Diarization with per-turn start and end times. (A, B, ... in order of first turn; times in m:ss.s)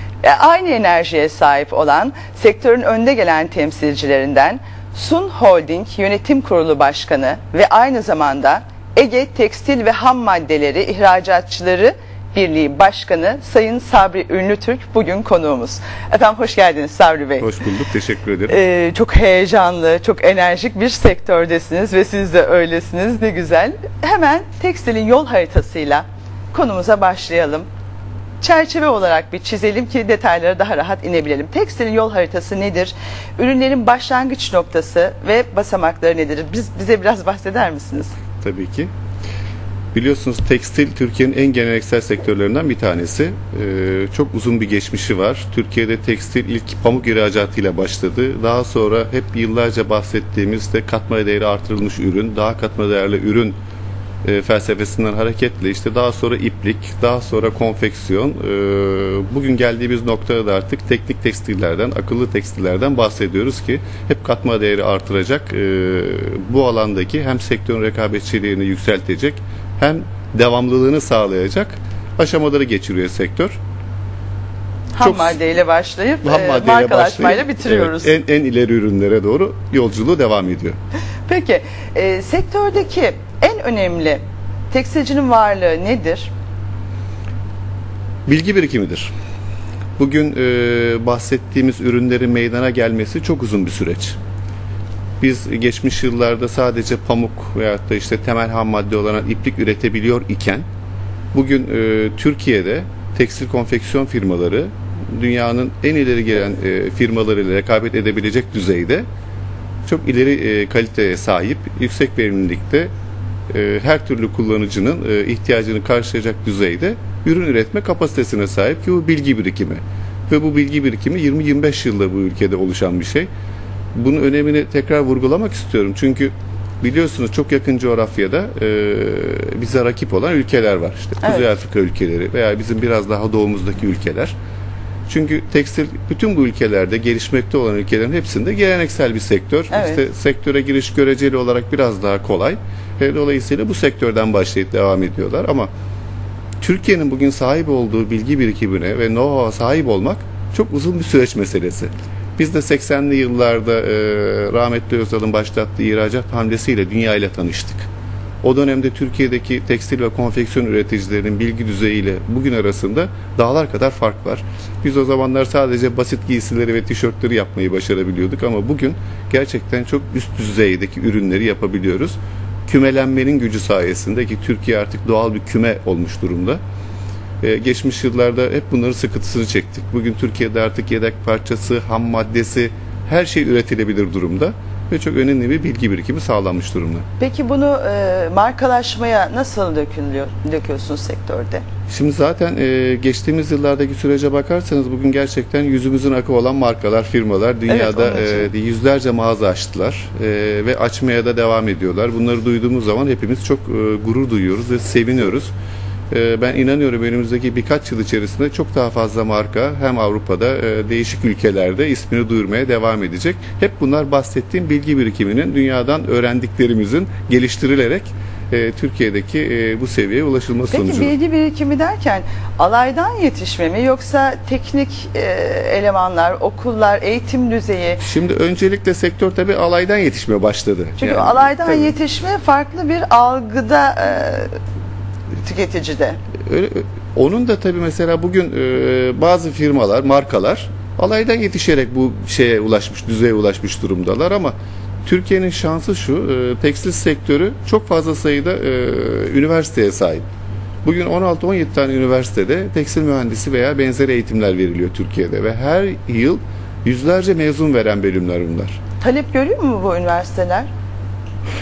0:00.2-0:17.5 A
0:17.4-0:18.6 B
0:18.5-0:27.7 A
0:28.4-0:38.1 A
0:38.4-0:38.9 B
0:39.9-0:53.6 B
0:54.2-1:13.6 B
1:14.9-1:18.1 A
1:15.0-1:15.4 B
1:16.2-1:20.8 B
1:21.3-1:26.3 A
1:28.3-1:29.1 B
1:30.0-1:34.2 B
1:35.2-1:40.6 B
1:41.3-1:49.0 B
1:49.8-1:52.9 B
1:53.5-2:03.3 B
2:03.9-2:14.3 B
2:15.1-2:25.7 B
2:19.7-2:20.0 A
2:26.6-2:37.9 B
2:38.4-2:56.6 B
2:57.4-3:07.0 B
3:07.2-3:11.6 A
3:11.9-3:25.5 B
3:17.7-3:18.5 A
3:26.1-3:41.1 B
3:40.7-3:48.0 A
3:48.0-3:51.9 B
3:51.0-3:54.5 A
3:55.4-3:56.2 A
3:56.4-4:04.5 B
4:05.0-4:10.2 B
4:10.8-4:18.8 B
4:19.0-4:20.7 A